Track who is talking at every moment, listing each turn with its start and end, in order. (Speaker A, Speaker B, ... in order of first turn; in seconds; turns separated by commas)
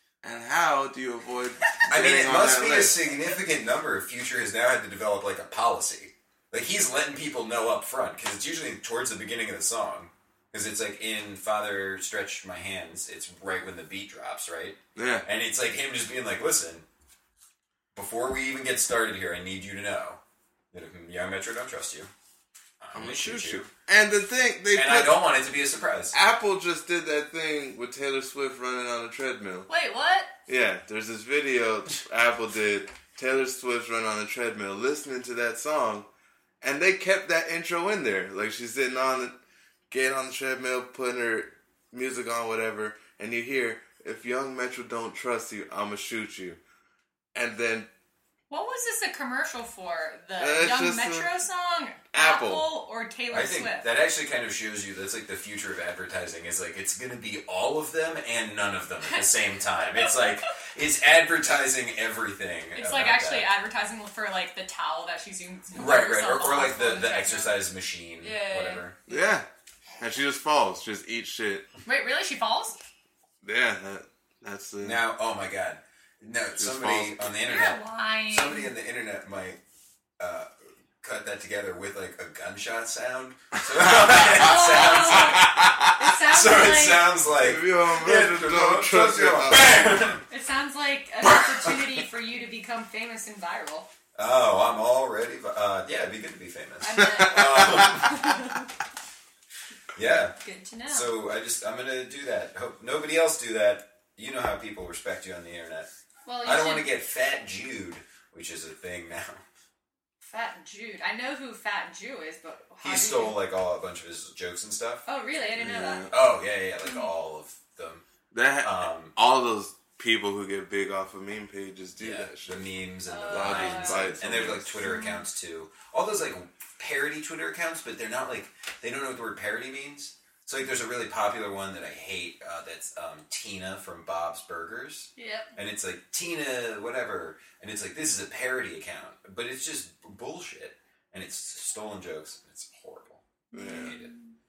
Speaker A: 0.2-3.1, Speaker B: 1.9-16.8, Speaker A: 14.9-15.2, Speaker B: 17.9-20.2, Speaker B: 20.7-22.1, Speaker B: 22.8-23.7, Speaker A: 22.9-25.2, Speaker B: 24.7-26.1, Speaker A: 26.1-29.7, Speaker C: 29.7-30.3, Speaker A: 30.5-36.1, Speaker A: 36.6-39.4, Speaker A: 39.9-46.6, Speaker A: 47.3-47.9, Speaker C: 48.5-53.9, Speaker A: 50.4-51.3, Speaker A: 52.1-52.7, Speaker B: 53.3-63.5, Speaker C: 59.1-60.5, Speaker C: 62.7-67.6, Speaker B: 65.7-69.0, Speaker C: 68.2-69.2, Speaker A: 69.1-69.5, Speaker A: 70.0-71.7, Speaker C: 71.8-72.8, Speaker A: 73.4-75.0, Speaker B: 74.8-79.6, Speaker A: 76.6-77.3, Speaker C: 77.4-78.7, Speaker B: 80.2-85.6, Speaker A: 84.0-84.6, Speaker C: 84.3-87.1, Speaker A: 85.2-85.8, Speaker B: 86.2-90.2, Speaker A: 87.3-89.8, Speaker C: 90.3-93.9, Speaker B: 94.1-98.5, Speaker C: 96.8-98.7, Speaker B: 99.9-100.3, Speaker C: 100.4-101.1, Speaker B: 100.9-105.9, Speaker C: 106.2-106.9, Speaker B: 106.4-109.4, Speaker C: 110.2-113.4, Speaker B: 112.8-115.0, Speaker C: 115.0-116.1, Speaker A: 115.6-116.1, Speaker B: 116.1-118.0, Speaker A: 118.3-122.7, Speaker B: 118.6-119.1, Speaker B: 122.0-144.1, Speaker C: 123.1-124.2, Speaker A: 123.3-124.8, Speaker C: 124.8-125.2, Speaker C: 135.2-135.6, Speaker C: 143.5-144.3, Speaker A: 143.5-143.9